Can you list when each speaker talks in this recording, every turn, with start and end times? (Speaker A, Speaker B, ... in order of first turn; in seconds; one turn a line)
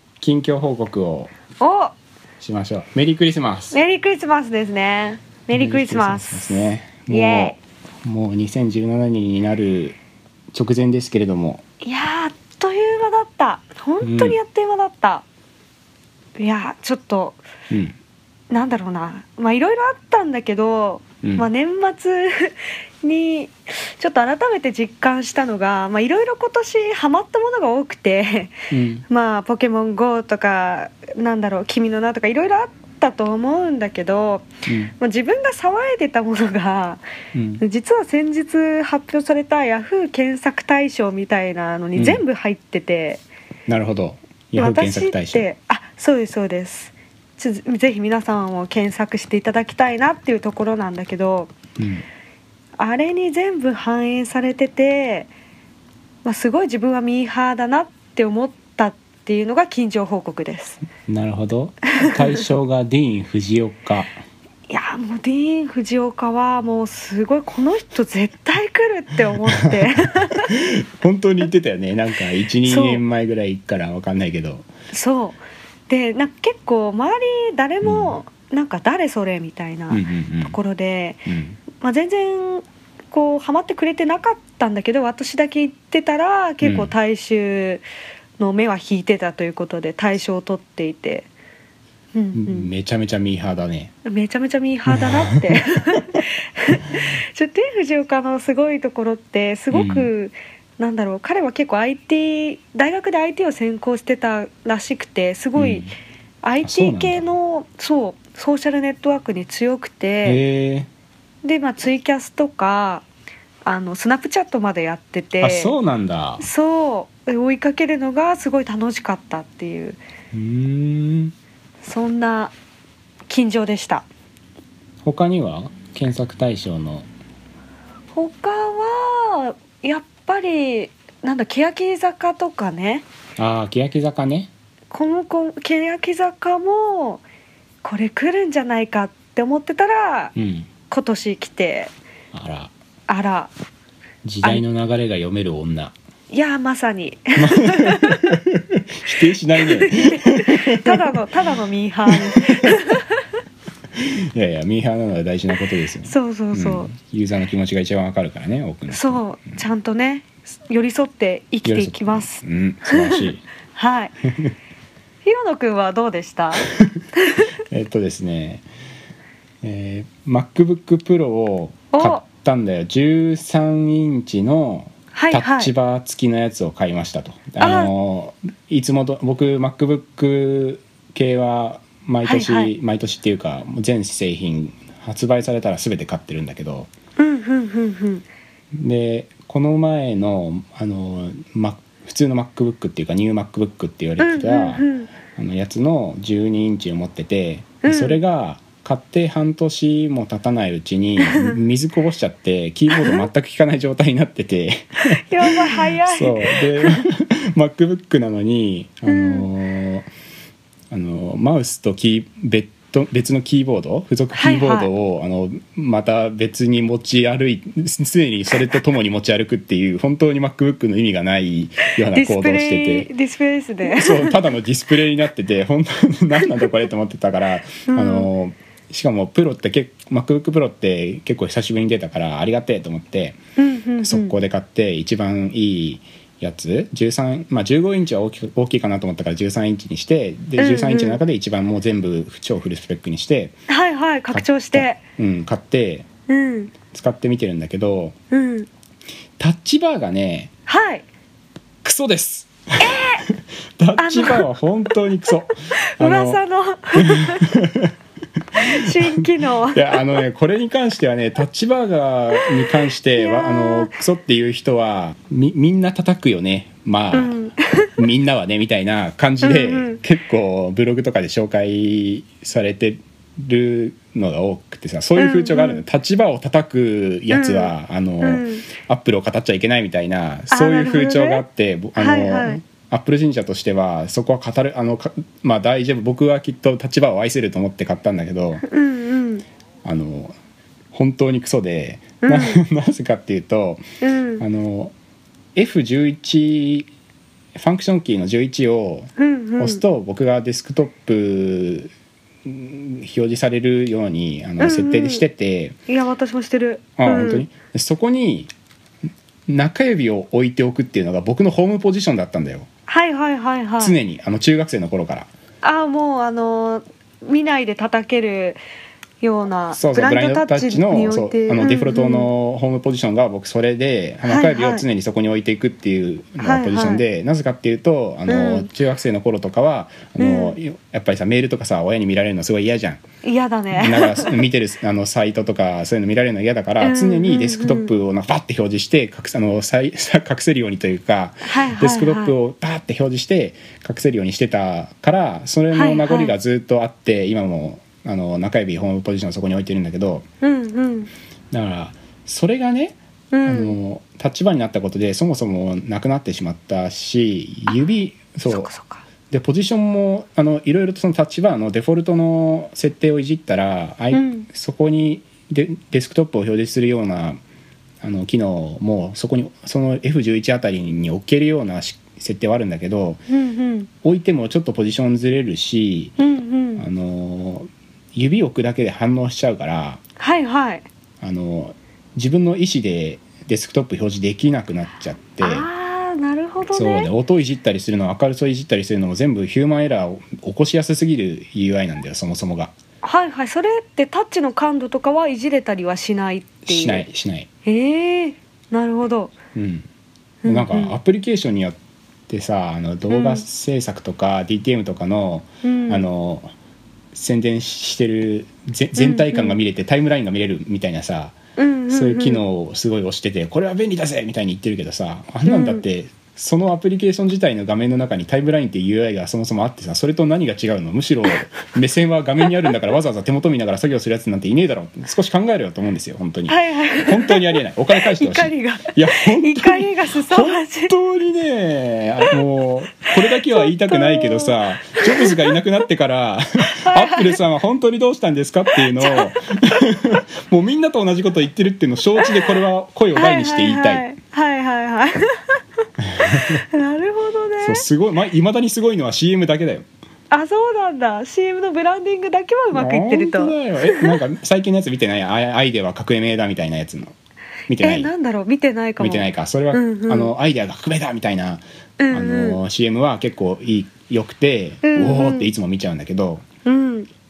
Speaker A: 0.2-1.3
Speaker B: 1.6-1.9
Speaker A: 2.4-3.8
Speaker B: 3.7-7.6
Speaker A: 5.5-10.0
Speaker A: 10.5-11.6
Speaker B: 11.8-15.2
Speaker A: 14.0-14.4
Speaker B: 16.4-17.4
Speaker A: 17.7-17.9
Speaker B: 18.5-28.6
Speaker A: 21.2-21.5
Speaker A: 28.7-29.0
Speaker B: 29.1-37.0
Speaker A: 34.7-34.9
Speaker A: 37.3-37.6
Speaker B: 37.6-43.2
Speaker A: 42.0-42.2
Speaker A: 43.7-45.5
Speaker B: 44.6-51.5
Speaker A: 51.8-52.0
Speaker B: 52.8-55.3
Speaker B: 56.2-60.8
Speaker A: 61.0-64.1
Speaker B: 62.0-62.4
Speaker B: 64.7-70.5
Speaker A: 69.5-69.9
Speaker A: 70.4-74.7
Speaker B: 72.6-73.0
Speaker B: 74.9-87.8
Speaker A: 77.8-78.1
Speaker A: 79.9-80.6
Speaker A: 81.2-81.6
Speaker A: 86.6-86.9
Speaker B: 88.4-91.3
Speaker B: 92.1-92.7
Speaker A: 92.3-93.9
Speaker B: 94.0-105.9
Speaker A: 94.9-96.2
Speaker A: 99.7-100.1
Speaker A: 105.5-105.9
Speaker B: 106.4-110.4
Speaker A: 106.6-107.3
Speaker A: 110.2-110.9
Speaker B: 111.4-113.0
Speaker B: 113.6-115.7
Speaker A: 115.4-116.5
Speaker B: 116.4-120.0
Speaker A: 120.3-121.3
Speaker B: 121.8-122.5
Speaker B: 123.3-124.0
Speaker A: 125.0-127.1
Speaker B: 128.1-133.0
Speaker A: 133.4-134.5
Speaker B: 134.9-137.2
Speaker B: 137.8-140.3
Speaker A: 140.3-140.7
Speaker B: 140.9-141.9
Speaker A: 142.3-142.7
Speaker B: 143.1-143.5
Speaker A: 144.2-145.9
Speaker B: 146.3-148.2
Speaker A: 147.4-151.1
Speaker B: 149.6-153.2
Speaker A: 152.1-152.8
Speaker A: 153.9-159.6
Speaker B: 156.0-156.9
Speaker B: 158.9-164.1
Speaker A: 161.6-163.4
Speaker B: 165.2-167.5
Speaker A: 167.7-168.7
Speaker A: 169.6-186.9
Speaker B: 171.9-172.2
Speaker B: 175.1-175.7
Speaker B: 177.6-177.9
Speaker B: 182.2-182.7
Speaker B: 187.2-188.2
Speaker A: 188.7-210.1
Speaker B: 194.2-195.1
Speaker B: 197.8-198.2
Speaker B: 201.2-201.6
Speaker B: 202.9-203.3
Speaker B: 205.1-207.1
Speaker B: 209.1-209.5
Speaker A: 210.9-223.1
Speaker B: 214.3-214.9
Speaker B: 222.1-224.4
Speaker A: 223.8-233.4
Speaker B: 227.9-228.3
Speaker B: 233.6-234.3
Speaker A: 234.0-243.5
Speaker B: 240.6-241.2
Speaker B: 243.7-245.0
Speaker A: 244.3-246.1
Speaker B: 246.3-246.7
Speaker A: 246.9-248.2
Speaker B: 248.3-248.7
Speaker A: 249.4-250.5
Speaker B: 250.7-251.1
Speaker A: 251.8-256.4
Speaker B: 252.8-253.2
Speaker B: 254.0-254.4
Speaker B: 255.9-257.4
Speaker A: 257.0-257.9
Speaker A: 258.6-267.4
Speaker B: 258.6-260.1
Speaker B: 263.1-263.9
Speaker B: 267.1-267.9
Speaker A: 268.0-288.6
Speaker B: 269.4-270.0
Speaker B: 275.1-275.8
Speaker B: 277.3-278.6
Speaker B: 280.5-281.4
Speaker B: 282.0-282.6
Speaker B: 288.6-289.4
Speaker A: 289.8-290.3
Speaker A: 290.9-293.8
Speaker B: 292.2-292.6
Speaker B: 294.0-294.4
Speaker A: 294.4-294.9
Speaker A: 295.5-296.9
Speaker A: 297.5-301.9
Speaker B: 299.2-299.8
Speaker A: 302.4-305.8
Speaker B: 304.6-305.2
Speaker B: 305.9-307.4
Speaker A: 307.0-308.5
Speaker A: 309.5-312.7
Speaker B: 312.9-313.9
Speaker A: 313.8-315.3
Speaker B: 315.6-318.6
Speaker B: 319.2-322.3
Speaker A: 319.7-333.0
Speaker B: 324.2-324.8
Speaker B: 326.4-327.0
Speaker B: 328.3-328.7
Speaker B: 330.2-330.6
Speaker B: 333.2-334.4
Speaker A: 333.7-350.2
Speaker B: 336.8-337.9
Speaker B: 341.4-342.4
Speaker B: 345.7-346.4
Speaker B: 350.4-351.1
Speaker A: 351.5-358.7
Speaker B: 353.3-353.7
Speaker B: 358.4-359.0
Speaker A: 359.3-367.4
Speaker B: 364.1-364.4
Speaker A: 368.0-373.2
Speaker B: 373.3-373.9
Speaker A: 374.0-376.1
Speaker B: 376.2-376.8
Speaker A: 376.8-380.0
Speaker B: 380.2-380.9
Speaker A: 381.2-385.7
Speaker B: 385.4-387.1
Speaker A: 386.7-392.7
Speaker B: 393.0-397.0
Speaker A: 396.6-397.5
Speaker B: 397.6-399.3
Speaker A: 399.5-399.9
Speaker B: 400.4-400.9
Speaker A: 400.4-401.8
Speaker A: 402.3-406.5
Speaker B: 403.1-403.4
Speaker B: 405.6-406.0
Speaker A: 407.1-411.4
Speaker B: 409.0-409.6
Speaker B: 411.6-412.4
Speaker A: 411.9-444.0
Speaker B: 415.4-415.8
Speaker B: 422.4-422.7
Speaker B: 426.5-430.9
Speaker B: 433.2-435.5
Speaker B: 436.8-437.4
Speaker B: 438.8-439.8
Speaker B: 443.1-445.4
Speaker A: 446.0-446.6
Speaker B: 446.3-447.8
Speaker A: 447.6-449.9
Speaker B: 450.3-454.2
Speaker A: 452.7-457.1
Speaker A: 457.7-458.1
Speaker B: 457.8-460.3
Speaker A: 459.0-466.4
Speaker B: 462.0-462.6
Speaker B: 464.8-465.5
Speaker B: 466.6-467.1